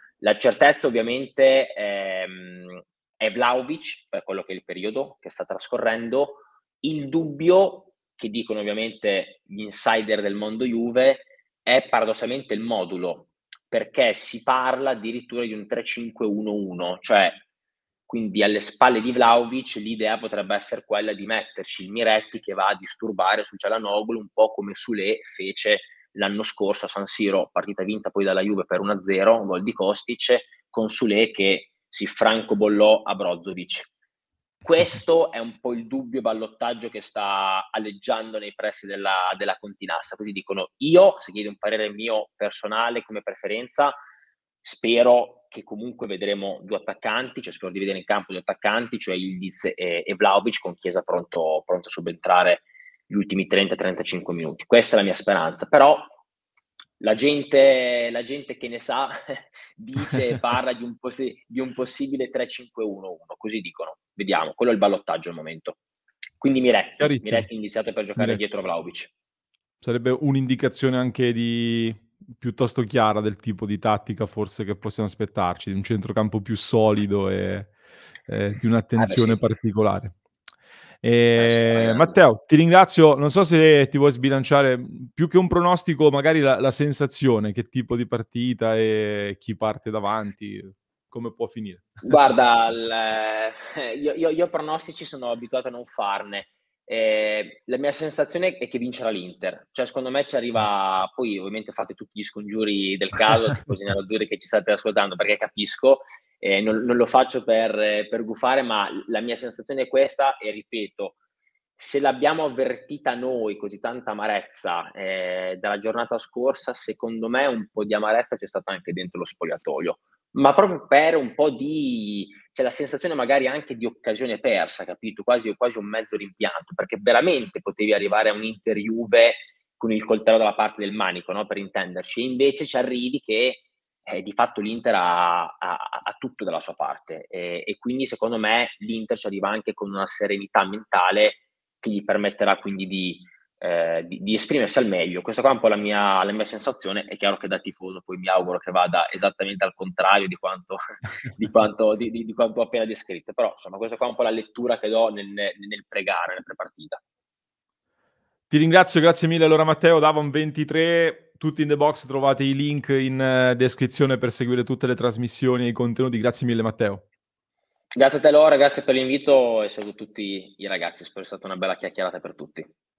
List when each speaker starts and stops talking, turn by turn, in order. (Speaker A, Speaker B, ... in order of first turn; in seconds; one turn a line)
Speaker A: 0.2-17.4
Speaker A: 18.1-33.9
Speaker A: 34.6-44.0
Speaker A: 44.6-56.1
Speaker A: 57.0-65.8
Speaker A: 66.4-69.1
Speaker B: 67.0-67.5
Speaker B: 69.8-77.8
Speaker B: 78.3-80.2
Speaker A: 79.0-79.4
Speaker B: 81.0-91.9
Speaker A: 81.4-82.2
Speaker A: 92.0-111.2
Speaker A: 111.8-157.0
Speaker B: 158.5-167.0
Speaker A: 167.9-172.7